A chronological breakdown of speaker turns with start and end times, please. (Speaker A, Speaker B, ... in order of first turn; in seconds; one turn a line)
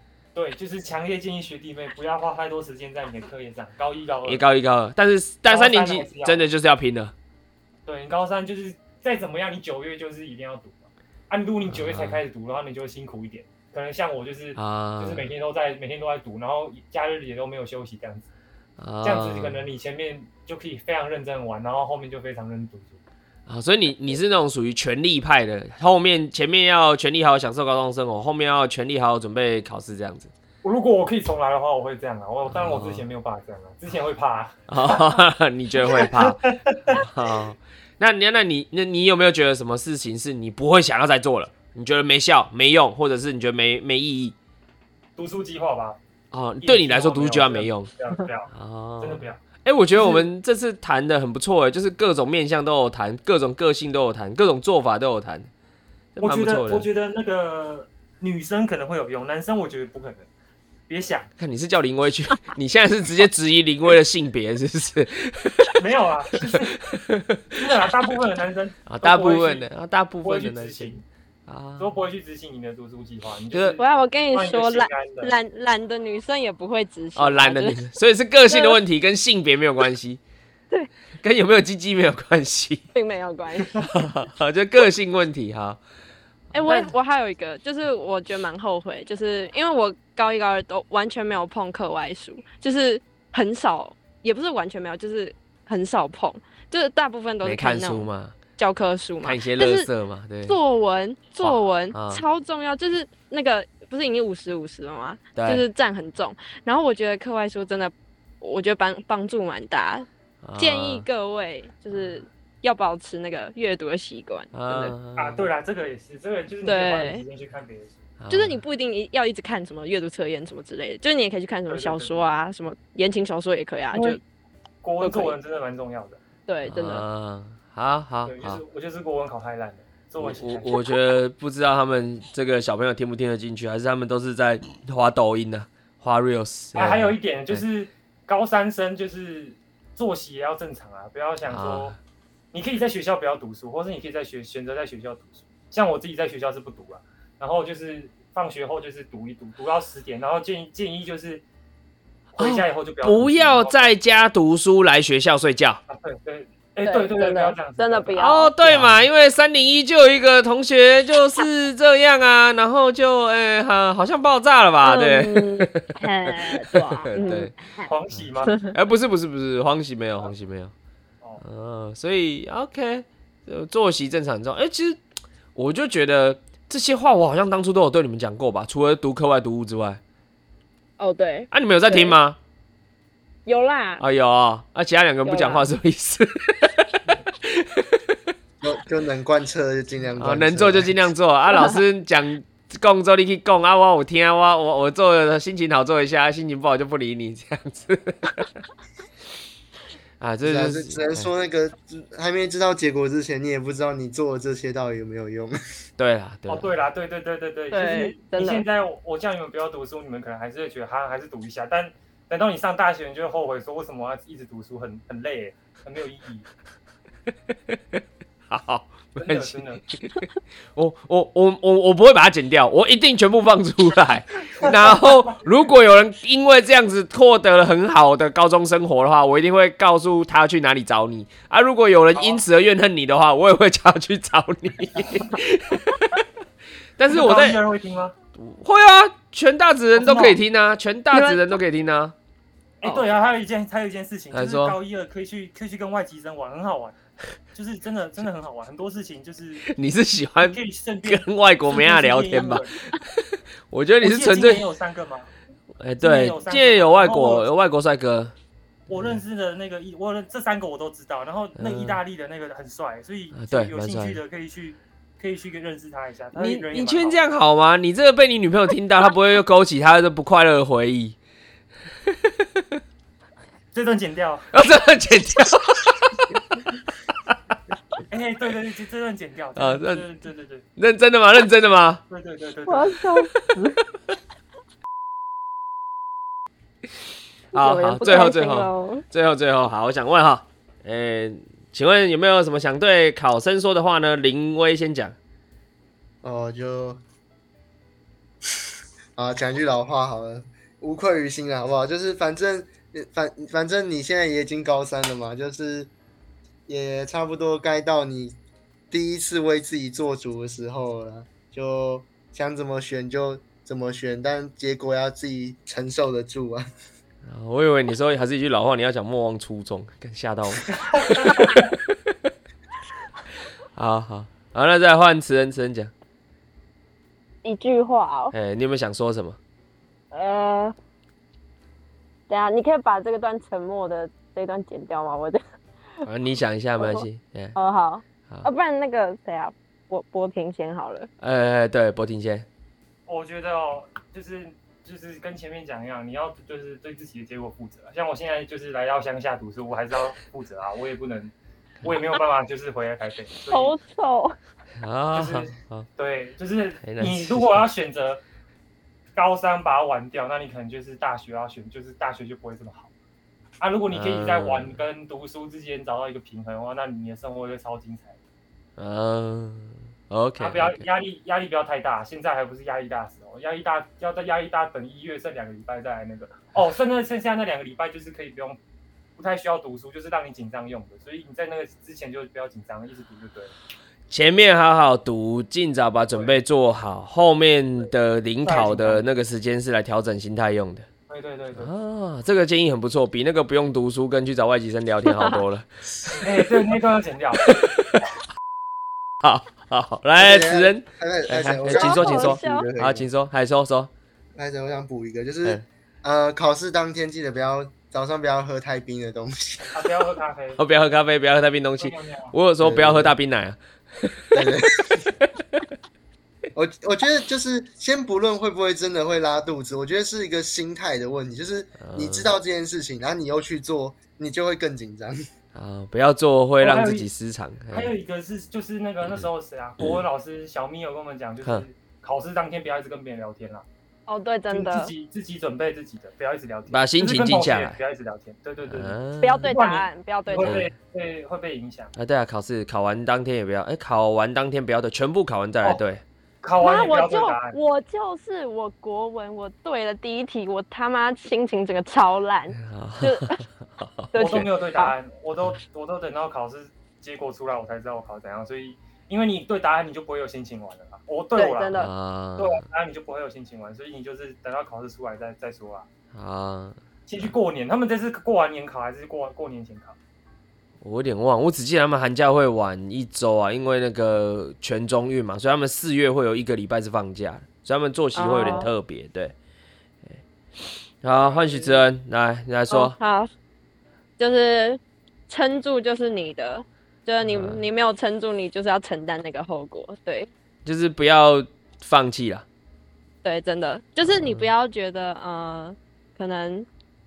Speaker A: 0.3-4.4
Speaker B: 4.3-7.1
Speaker A: 5.5-6.5
Speaker A: 7.9-18.3
Speaker B: 11.7-12.2
Speaker B: 14.6-15.3
Speaker B: 18.8-19.6
Speaker A: 19.0-23.0
Speaker B: 23.5-30.3
Speaker A: 30.6-35.2
Speaker B: 32.5-33.0
Speaker B: 34.7-44.4
Speaker A: 35.8-37.0
Speaker A: 45.2-46.0
Speaker B: 46.3-47.9
Speaker A: 46.6-49.4
Speaker B: 48.5-55.5
Speaker A: 49.9-50.3
Speaker B: 56.1-56.9
Speaker A: 56.2-60.3
Speaker A: 60.9-61.3
Speaker B: 61.4-65.8
Speaker A: 65.8-66.8
Speaker B: 66.4-67.8
Speaker A: 67.5-69.7
Speaker B: 68.9-71.9
Speaker A: 70.2-71.0
Speaker A: 71.8-73.8
Speaker B: 73.5-73.8
Speaker C: 73.8-77.8
Speaker A: 74.3-75.3
Speaker B: 77.2-80.2
Speaker C: 78.5-78.8
Speaker B: 81.2-82.9
Speaker C: 82.9-83.9
Speaker B: 83.8-85.8
Speaker C: 86.5-98.1
Speaker B: 86.7-86.9
Speaker B: 97.4-98.4
Speaker C: 98.6-99.9
Speaker B: 99.2-100.6
Speaker C: 100.5-110.1
Speaker B: 101.4-102.2
Speaker B: 105.3-105.7
Speaker B: 110.4-111.1
Speaker C: 110.6-115.0
Speaker B: 114.5-115.5
Speaker A: 115.2-118.0
Speaker C: 116.7-117.2
Speaker B: 118.2-118.6
Speaker C: 118.3-124.2
Speaker A: 121.7-122.2
Speaker A: 123.9-124.2
Speaker A: 124.8-126.2
Speaker C: 125.0-125.4
Speaker C: 126.5-127.0
Speaker B: 126.7-128.6
Speaker A: 128.3-130.8
Speaker B: 130.2-137.6
Speaker A: 136.8-141.9
Speaker B: 141.5-142.0
Speaker A: 142.5-151.4
Speaker A: 152.4-154.0
Speaker B: 152.4-155.8
Speaker A: 155.9-159.0
Speaker C: 156.8-158.5
Speaker B: 158.2-167.5
Speaker C: 164.8-167.9
Speaker A: 167.2-168.6
Speaker B: 168.2-170.7
Speaker C: 168.5-168.7
Speaker B: 171.4-175.0
Speaker B: 175.6-180.0
Speaker C: 181.0-182.2
Speaker B: 181.5-182.4
Speaker C: 183.5-184.0
Speaker B: 184.0-188.2
Speaker C: 185.2-185.7
Speaker D: 188.6-191.1
Speaker B: 190.2-198.6
Speaker B: 200.2-201.3
Speaker D: 200.4-205.6
Speaker B: 206.0-206.7
Speaker A: 206.5-216.5
Speaker C: 207.7-208.6
Speaker B: 217.5-236.2
Speaker A: 219.2-219.8
Speaker A: 224.6-225.4
Speaker A: 232.2-232.4
Speaker B: 237.0-237.6
Speaker A: 237.1-238.2
Speaker B: 238.4-242.2
Speaker A: 239.9-240.4
Speaker C: 241.1-241.6
Speaker A: 242.8-247.0
Speaker B: 244.3-244.8
Speaker A: 247.5-249.7
Speaker B: 249.7-254.7
Speaker A: 250.4-252.7
Speaker A: 254.0-255.3
Speaker B: 255.8-258.3
Speaker A: 256.0-257.5
Speaker A: 258.9-267.2
Speaker B: 261.6-262.0
Speaker B: 263.3-264.2
Speaker B: 266.4-271.2
Speaker B: 272.1-272.8
Speaker A: 273.7-274.5
Speaker B: 274.5-276.4
Speaker A: 278.1-280.7
Speaker B: 279.6-280.0
Speaker B: 280.8-282.0
Speaker A: 282.1-283.0
Speaker C: 282.7-283.8
Speaker B: 287.5-295.2
Speaker C: 287.5-289.0
Speaker D: 296.2-297.0
Speaker D: 299.2-305.9
Speaker D: 306.7-308.4
Speaker D: 308.9-316.7
Speaker B: 317.2-321.9
Speaker A: 320.9-321.6
Speaker B: 323.7-325.9
Speaker C: 327.4-328.3
Speaker B: 328.3-329.4
Speaker C: 330.1-330.8
Speaker C: 332.3-335.4
Speaker B: 336.1-337.6
Speaker C: 336.8-337.1
Speaker C: 337.6-341.1
Speaker B: 341.2-342.5
Speaker A: 343.1-353.8
Speaker C: 353.5-354.4
Speaker B: 354.8-355.9
Speaker A: 355.1-358.2
Speaker B: 356.8-357.7
Speaker A: 359.1-362.9
Speaker A: 363.6-368.2
Speaker B: 363.9-364.8
Speaker B: 368.8-370.8
Speaker A: 370.4-378.6
Speaker A: 379.2-383.5
Speaker B: 384.1-390.9
Speaker A: 386.1-386.4
Speaker A: 388.4-389.1
Speaker A: 391.1-391.7
Speaker B: 391.6-396.2
Speaker C: 395.1-395.4
Speaker A: 396.2-397.5
Speaker B: 397.5-398.1
Speaker B: 399.2-403.9
Speaker D: 400.2-403.1
Speaker C: 401.7-402.7
Speaker D: 404.4-409.8
Speaker A: 409.7-410.6
Speaker B: 410.6-414.5
Speaker A: 411.8-412.3
Speaker D: 412.6-413.1
Speaker D: 414.3-415.1
Speaker B: 415.2-415.6
Speaker D: 416.5-425.2
Speaker B: 421.8-422.3
Speaker B: 425.5-427.9
Speaker A: 426.6-427.1
Speaker A: 427.7-433.6
Speaker C: 434.1-434.9
Speaker A: 434.5-441.9
Speaker B: 436.7-437.8
Speaker B: 438.7-439.5
Speaker C: 439.2-440.6
Speaker B: 440.4-440.7
Speaker B: 442.0-446.0
Speaker A: 446.4-447.6
Speaker C: 446.6-453.4
Speaker B: 452.6-454.5
Speaker C: 454.1-454.9
Speaker A: 454.1-461.7
Speaker C: 461.4-461.9
Speaker B: 461.7-462.6
Speaker A: 462.4-465.9
Speaker B: 466.1-466.8
Speaker A: 467.1-470.0
Speaker B: 470.8-479.4
Speaker C: 478.1-478.7
Speaker A: 478.3-478.7
Speaker B: 481.0-482.9
Speaker C: 481.2-481.7
Speaker C: 482.7-483.3
Speaker C: 484.2-490.3
Speaker B: 487.2-487.6
Speaker B: 490.6-492.5
Speaker C: 493.2-496.7
Speaker B: 494.0-494.5